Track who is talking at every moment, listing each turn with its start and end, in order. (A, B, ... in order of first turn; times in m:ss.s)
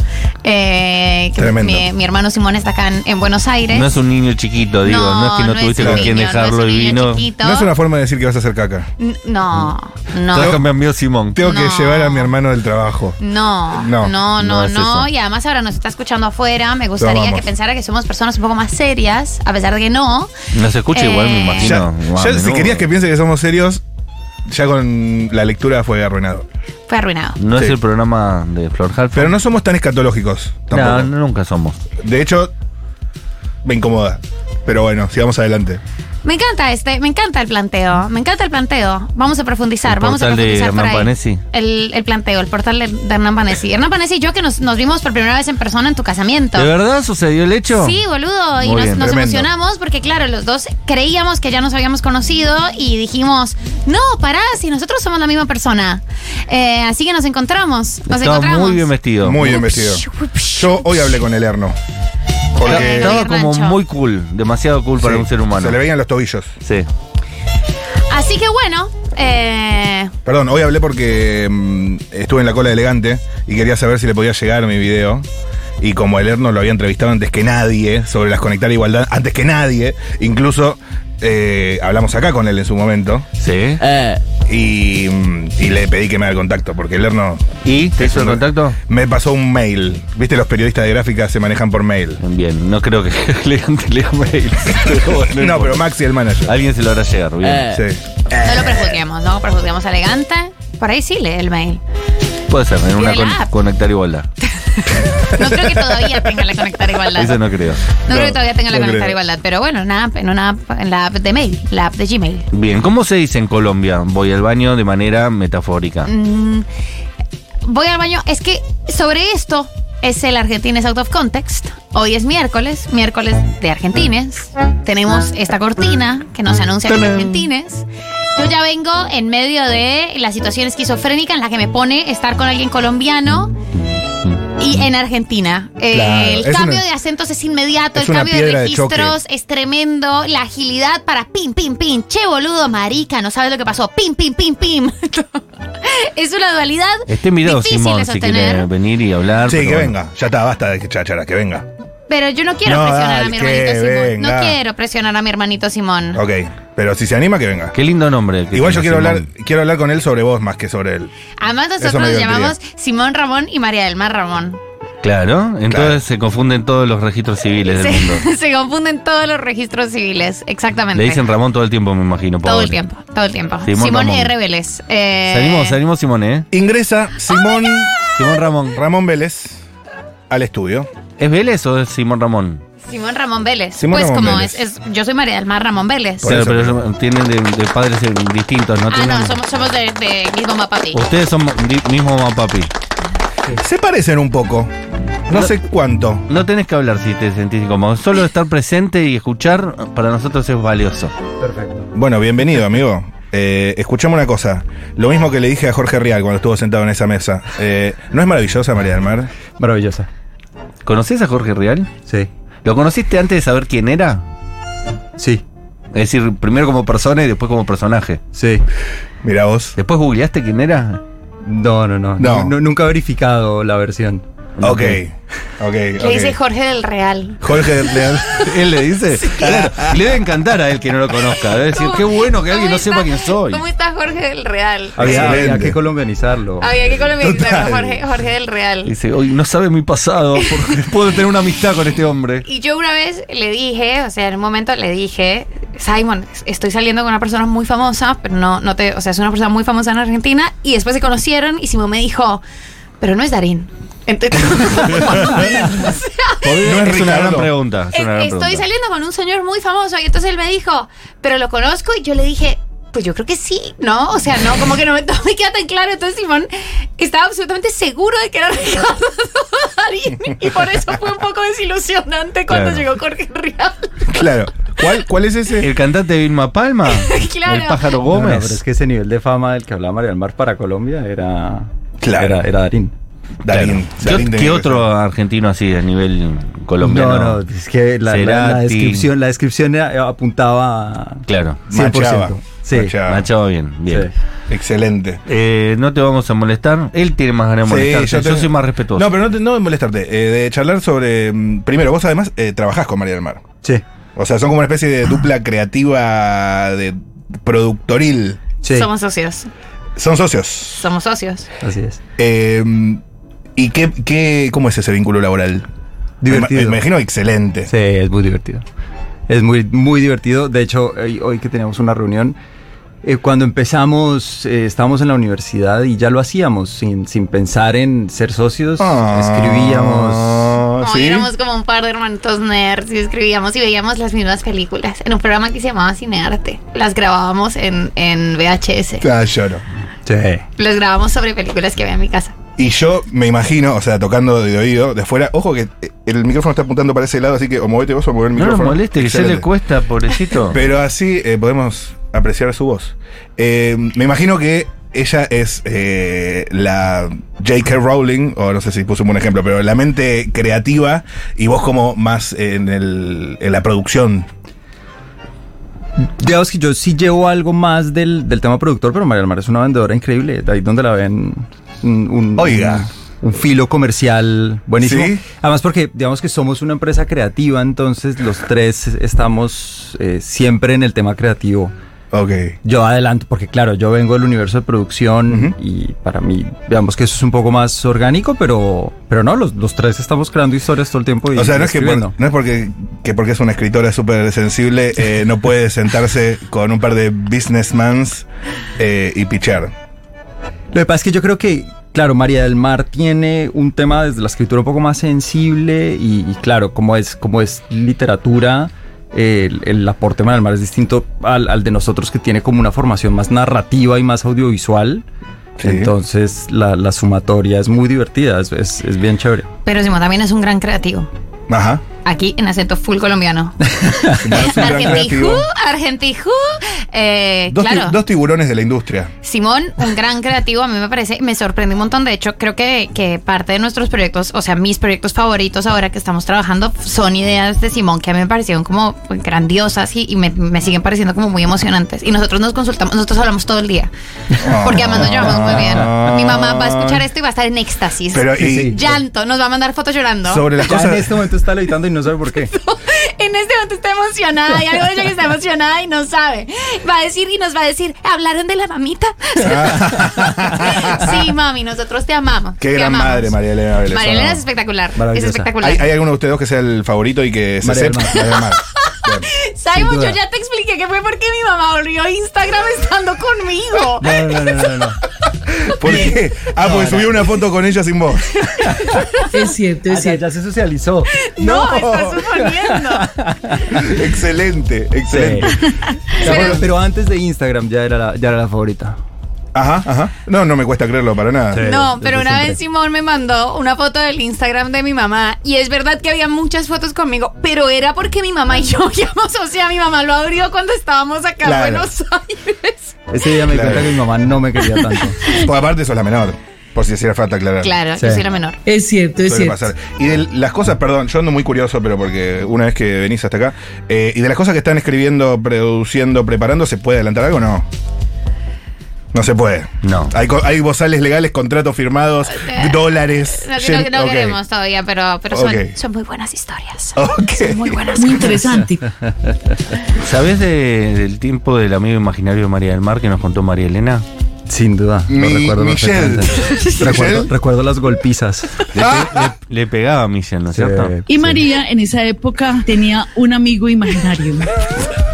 0:00.4-0:04.0 A
0:01.4-0:01.9 B
0:03.7-0:07.3 C
0:04.8-0:07.7 A
0:05.8-0:06.1 B
0:07.4-0:08.9 B
0:09.0-0:10.6 A
0:10.3-0:11.4 C
0:10.3-0:10.7 B
0:11.3-0:13.2 B
0:11.4-0:12.3 A
0:13.2-0:20.3 A
0:13.7-0:14.1 B
0:14.4-0:15.1 C
0:17.0-0:17.5 B
0:20.5-0:22.8 C
0:20.9-0:21.8 A
0:21.6-0:23.8 B
0:24.4-0:26.5 B
0:26.9-0:27.4 A
0:27.4-0:29.3 C
0:29.1-0:31.1 B
0:30.7-0:31.8 C
0:32.0-0:32.5 B
0:33.6-0:35.8 B
0:36.2-0:46.7 A
0:39.8-0:41.4 C
0:46.5-0:48.0 C
0:47.7-0:58.9 A
0:48.6-0:49.1 C
0:48.9-0:49.5 B
0:58.1-0:59.6 C
0:59.2-1:01.8 B
0:59.4-1:01.2 A
1:02.6-1:03.2 B
1:02.6-1:03.8 A
1:02.6-1:05.8 C
1:05.0-1:06.5 B
1:08.1-1:10.1 A
1:10.2-1:15.2 B
1:15.8-1:23.3 B
1:23.4-1:23.8 C
1:24.4-1:32.2 B
1:27.6-1:28.8 C
1:32.2-1:35.9 C
1:35.2-1:36.5 B
1:36.4-1:37.8 C
1:37.6-1:39.0 B
1:38.4-1:41.8 A
1:42.5-1:44.3 C
1:43.0-1:43.5 A
1:44.8-1:47.4 A
1:45.3-1:46.1 B
1:47.2-1:47.9 C
1:48.0-1:52.5 A
1:48.1-1:49.2 B
1:52.5-1:56.1 C
1:56.0-1:56.6 A
1:57.6-2:13.6 A
2:14.6-2:28.7 A
2:15.9-2:16.8 B
2:17.9-2:19.2 B
2:27.1-2:29.9 C
2:29.4-2:31.7 B
2:32.1-2:36.2 A
2:32.6-2:34.6 B
2:36.1-2:37.7 B
2:37.7-2:39.3 C
2:38.5-2:41.1 B
2:41.4-2:44.6 A
2:41.8-2:42.5 B
2:45.0-2:48.2 C
2:45.7-2:46.0 B
2:47.7-2:51.2 A
2:50.9-2:52.8 C
2:52.4-2:55.8 A
2:53.6-2:54.3 C
2:55.3-2:56.5 C
2:56.5-2:58.0 B
2:58.1-2:58.8 C
2:58.7-2:59.6 B
3:00.3-3:00.9 B
3:01.2-3:02.6 C
3:02.8-3:06.3 A
3:03.8-3:04.6 B
3:06.2-3:06.8 B
3:06.2-3:09.4 C
3:08.9-3:11.0 A
3:10.9-3:12.7 C
3:13.6-3:14.7 B
3:15.3-3:16.2 B
3:16.3-3:21.1 C
3:21.4-3:21.9 D
3:21.9-3:29.3 B
3:29.6-3:30.1 D
3:30.8-3:31.9 C
3:32.6-3:34.2 C
3:35.2-3:35.4 D
3:35.9-3:38.2 C
3:38.3-3:38.6 D
3:39.2-3:39.7 B
3:39.8-3:41.0 C
3:41.4-3:44.2 D
3:42.2-3:42.5 B
3:44.6-3:45.0 C
3:44.6-3:46.4 B
3:46.0-3:48.1 A
3:47.4-3:48.6 B
3:48.3-3:53.6 C
3:49.3-3:50.1 B
3:51.7-3:55.6 A
3:55.0-3:56.7 D
3:55.0-3:55.8 B
3:56.6-3:58.9 A
3:57.2-3:58.0 B
3:58.9-4:02.4 C
4:02.4-4:12.4 A
4:13.0-4:16.5 A
4:15.0-4:15.5 C
4:16.4-4:18.6 C
4:16.6-4:17.5 B
4:17.9-4:34.0 A
4:32.5-4:32.9 C
4:34.1-4:35.7 B
4:35.6-4:38.6 C
4:36.9-4:38.0 A
4:38.1-4:42.9 D
4:42.0-4:42.4 B
4:43.4-4:44.9 B
4:43.5-4:47.4 C
4:46.8-4:53.0 D
4:48.0-4:49.1 C
4:51.3-4:51.6 C
4:51.7-4:53.3 B
4:53.0-4:54.1 C
4:54.5-4:55.2 B
4:55.3-4:59.1 C
4:57.6-5:03.4 B
5:04.2-5:08.4 B
5:08.6-5:08.9 D
5:08.7-5:09.5 A
5:10.0-5:10.8 B
5:10.8-5:11.4 A
5:11.6-5:12.0 D
5:12.2-5:13.0 B
5:13.6-5:15.7 B
5:16.2-5:16.8 D
5:16.3-5:17.7 B
5:17.7-5:18.6 D
5:19.3-5:22.4 D
5:23.0-5:30.6 D
5:28.8-5:31.3 B
5:30.8-5:39.0 A
5:39.0-5:39.6 B
5:40.0-5:40.4 D
5:40.6-5:42.3 A
5:42.6-5:49.5 B
5:48.4-5:50.6 C
5:50.5-6:04.3 B
6:06.0-6:21.7 D
6:12.4-6:12.9 B
6:14.8-6:15.2 B
6:22.1-6:22.6 B
6:22.6-6:32.1 D
6:25.3-6:25.5 B
6:31.3-6:38.2 B
6:38.8-6:39.7 B
6:40.7-6:55.0 D
6:55.6-6:55.9 B
6:55.6-6:59.5 D
6:59.6-7:01.1 A
7:01.5-7:01.8 B
7:02.0-7:08.0 A
7:03.8-7:04.8 D
7:04.2-7:05.5 B
7:07.5-7:09.1 B
7:09.2-7:23.9 A
7:24.4-7:26.1 D
7:24.4-7:27.0 B
7:24.6-7:30.5 A
7:28.1-7:28.8 B
7:28.4-7:28.9 D
7:30.3-7:31.2 B
7:30.6-7:32.5 D
7:32.5-7:43.3 A
7:39.4-7:41.2 B
7:42.6-7:44.4 B
7:43.9-7:45.9 A
7:45.0-7:45.5 D
7:45.6-7:49.3 B
7:47.6-7:48.2 D
7:48.3-7:54.2 A
7:49.7-7:50.2 D
7:54.0-7:55.0 D
7:55.6-7:58.4 B
7:55.8-7:57.2 D
7:58.6-7:59.2 A
7:59.3-8:00.2 E
7:59.9-8:04.0 D
8:01.2-8:03.1 A
8:03.7-8:05.6 B
8:05.1-8:05.6 D
8:06.1-8:06.6 A
8:06.2-8:09.0 D
8:06.2-8:06.6 B
8:09.5-8:11.7 B
8:11.5-8:12.6 D
8:11.6-8:23.0 A
8:21.4-8:21.9 B
8:23.1-8:25.2 D
8:23.5-8:24.0 B
8:25.3-8:27.7 B
8:27.6-8:28.6 A
8:28.0-8:28.2 D
8:28.6-8:29.7 E
8:29.2-8:37.7 B
8:39.1-8:44.4 B
8:39.8-8:40.1 C
8:42.3-8:48.4 A
8:45.3-8:45.7 B
8:47.0-8:47.9 B
8:47.9-8:48.9 E
8:49.0-8:49.3 D
8:50.0-8:54.0 C
8:54.5-8:58.6 D
8:55.1-8:57.3 B
8:56.5-8:56.8 A
8:58.7-9:00.9 C
8:58.8-8:59.3 B
9:00.5-9:01.4 D
9:01.1-9:04.6 E